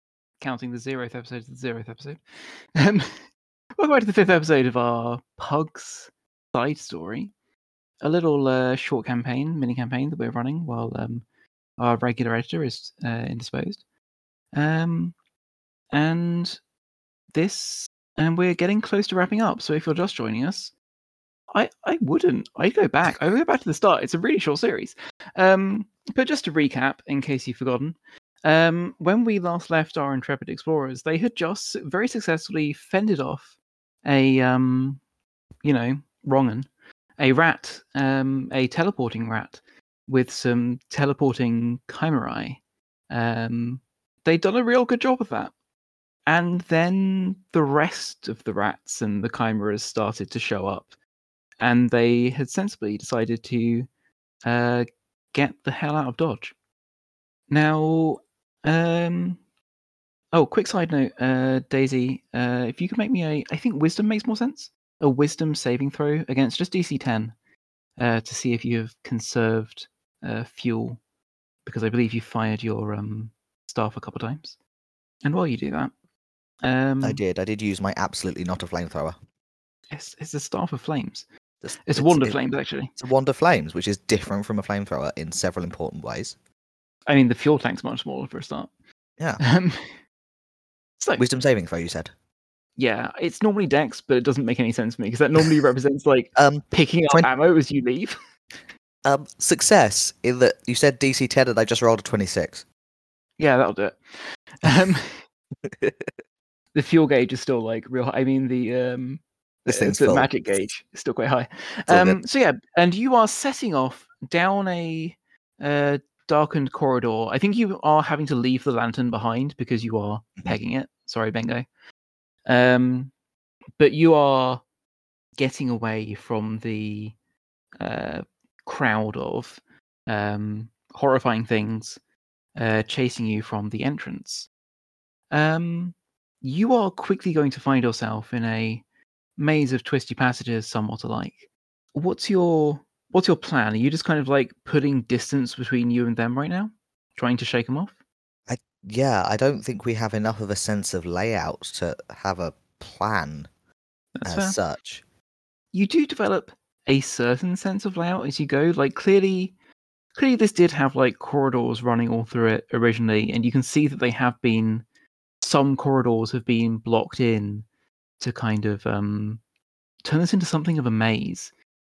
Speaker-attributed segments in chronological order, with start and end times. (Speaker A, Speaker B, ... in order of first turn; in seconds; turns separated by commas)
Speaker A: 0.4-3.2, Speaker A: 3.8-7.3, Speaker A: 8.0-11.2, Speaker A: 11.8-13.8, Speaker A: 14.5-15.1, Speaker A: 15.9-16.6, Speaker A: 17.3-20.7, Speaker A: 21.5-35.0, Speaker A: 35.6-45.5, Speaker A: 46.3-50.9, Speaker A: 51.6-53.9, Speaker A: 54.5-56.5, Speaker A: 57.5-59.4, Speaker A: 60.3-67.3, Speaker A: 68.0-71.0, Speaker A: 71.6-74.6, Speaker A: 75.2-75.9, Speaker A: 76.6-77.2, Speaker B: 77.0-79.2, Speaker A: 79.9-81.2, Speaker B: 81.6-82.4, Speaker A: 81.8-82.9, Speaker B: 82.9-86.3, Speaker A: 87.1-88.7, Speaker A: 89.4-90.0, Speaker A: 91.0-91.2, Speaker B: 91.2-92.1, Speaker A: 92.8-98.2, Speaker B: 96.4-97.3, Speaker B: 99.0-102.6, Speaker A: 103.4-105.2, Speaker B: 105.7-106.0, Speaker A: 106.7-121.7, Speaker B: 109.7-110.3, Speaker B: 111.9-112.2, Speaker A: 122.5-123.1, Speaker A: 123.8-124.6, Speaker A: 125.4-127.2, Speaker A: 127.8-132.0, Speaker A: 132.6-134.5, Speaker A: 135.3-138.8, Speaker A: 139.4-148.0, Speaker B: 148.5-153.5, Speaker A: 154.2-154.6, Speaker B: 154.2-155.0, Speaker A: 155.7-159.5, Speaker A: 160.2-164.8, Speaker A: 165.4-167.7, Speaker A: 168.2-169.4, Speaker A: 170.0-171.5